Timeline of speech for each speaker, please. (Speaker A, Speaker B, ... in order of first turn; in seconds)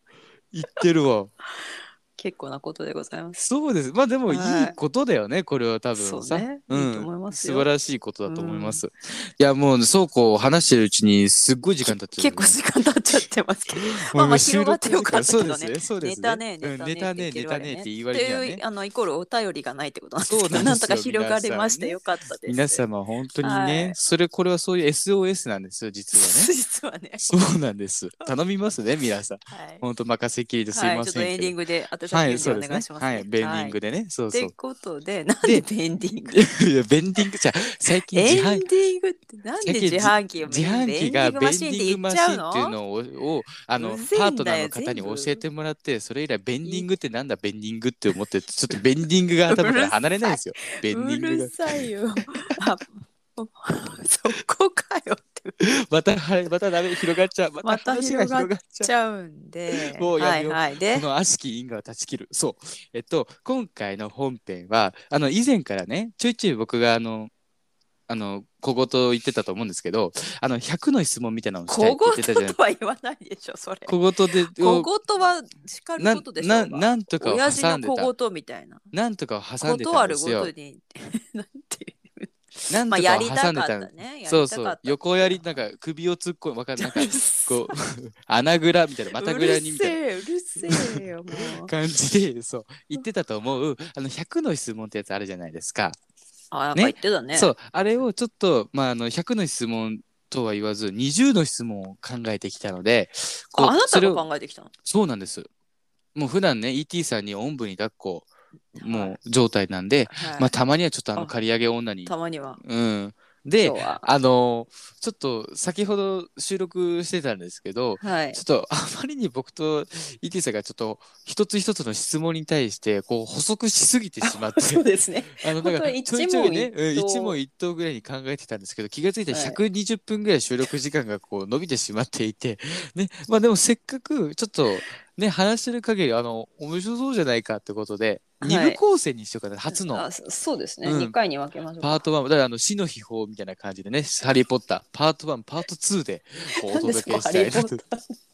Speaker A: 0.5-1.3, 3.3-12.6, 13.8-18.6, 20.2-26.5, 27.2-31.5, 32.1-34.5, 36.3-38.6, 39.6-51.9, 55.6-58.9, 59.7-67.3, 68.1-72.5, 73.8-74.9, 76.0-78.1, 78.9-80.5, 82.7-90.0, 90.6-96.0, 96.7-104.2, 104.8-105.5, 106.1-140.1, 140.8-141.1, 141.8-147.8
Speaker B: 1.5-3.4, 4.3-4.8, 5.9-7.7, 8.2-8.8, 11.8-22.8, 23.4-23.9, 26.1-27.2, 29.5-29.8, 30.7-33.8, 34.3-36.4, 38.1-42.8, 43.8-45.4, 49.5-55.5, 57.6-61.1, 71.7-73.9, 74.5-78.8, 79.6-85.6, 86.8-87.7, 89.1-91.7, 96.5-97.5, 103.5-104.7, 108.7-109.2, 110.1-110.5, 112.0-112.6, 113.6-114.0, 118.0-118.4, 124.2-127.4, 129.3-129.6, 138.4-138.8, 139.7-142.1, 146.5-148.2